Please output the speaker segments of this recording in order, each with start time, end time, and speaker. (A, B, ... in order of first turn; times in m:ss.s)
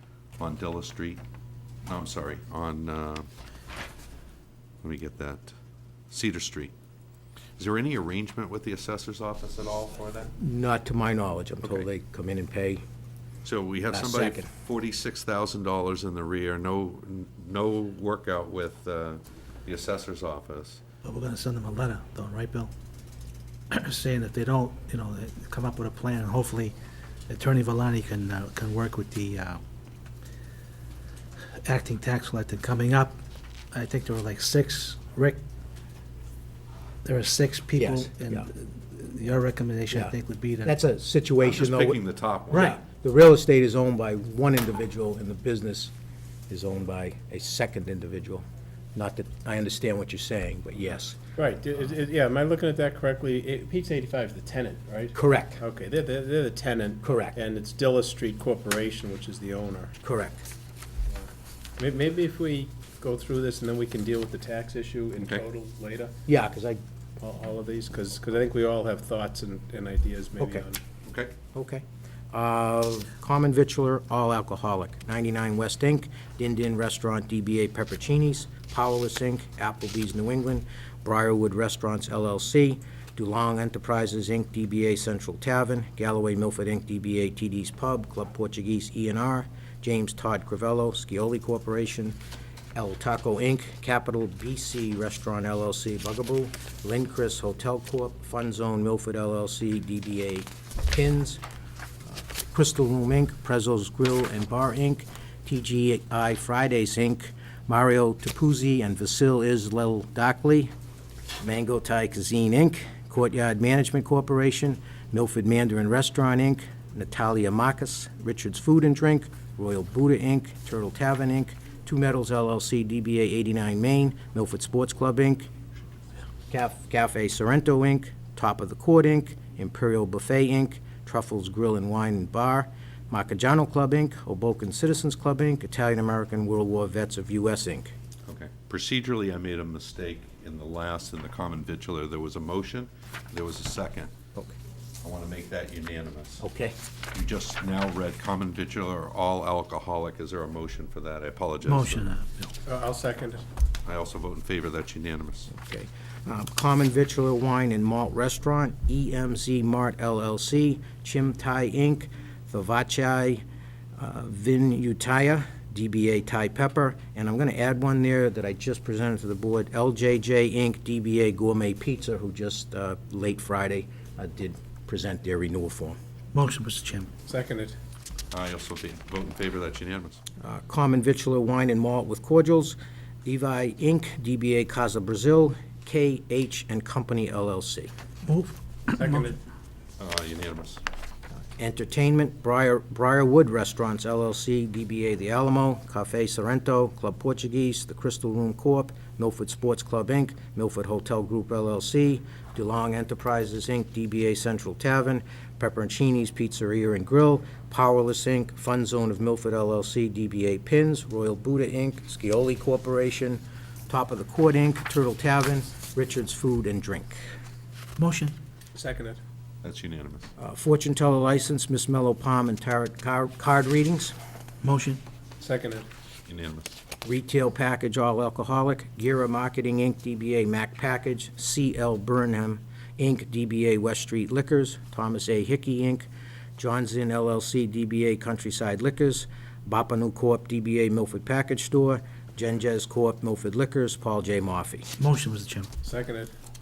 0:00.4-0:01.2 A
0:01.8-0:03.3 A
0:04.8-0:05.5 A
0:06.1-0:06.7 A
0:07.6-0:10.3 A
0:10.4-0:12.8 B
0:13.4-0:20.8 A
0:13.9-0:14.5 B
0:21.0-0:22.7 C
0:23.7-0:26.8 C
0:27.3-0:29.6 C
0:31.6-0:33.2 C
0:33.7-0:35.4 C
0:37.0-0:40.8 C
0:37.8-0:38.5 B
0:40.6-0:42.0 B
0:41.4-0:42.8 A
0:42.5-0:45.9 B
0:46.5-0:48.4 B
0:49.0-0:51.2 B
0:51.4-0:59.9 D
0:55.1-0:55.6 B
0:57.0-0:57.4 B
1:00.0-1:00.4 B
1:01.1-1:06.2 D
1:06.3-1:06.8 B
1:07.2-1:10.8 D
1:10.4-1:10.7 B
1:11.0-1:11.3 A
1:11.5-1:32.2 B
1:32.8-1:41.4 B
1:42.1-1:50.7 B
1:51.4-2:05.5 B
2:06.5-2:17.9 B
2:18.3-2:24.1 A
2:25.0-2:26.4 A
2:26.4-2:26.8 B
2:27.1-2:32.1 A
2:31.6-2:32.5 C
2:32.7-2:33.4 D
2:33.8-2:35.5 A
2:35.5-2:43.4 B
2:44.0-2:56.0 B
2:56.3-2:57.1 C
2:57.3-2:57.8 D
2:58.3-3:00.2 A
3:00.4-3:07.9 B
3:08.3-3:09.4 C
3:08.9-3:09.4 D
3:10.0-3:10.8 A
3:11.6-3:37.3 B
3:38.0-3:38.4 C
3:38.8-3:39.2 D
3:39.6-3:40.3 A
3:40.4-3:44.2 B
3:44.6-3:45.0 C
3:45.4-3:45.9 D
3:46.3-3:46.7 A
3:47.0-4:04.9 B
4:05.0-4:05.7 C
4:05.8-4:06.3 D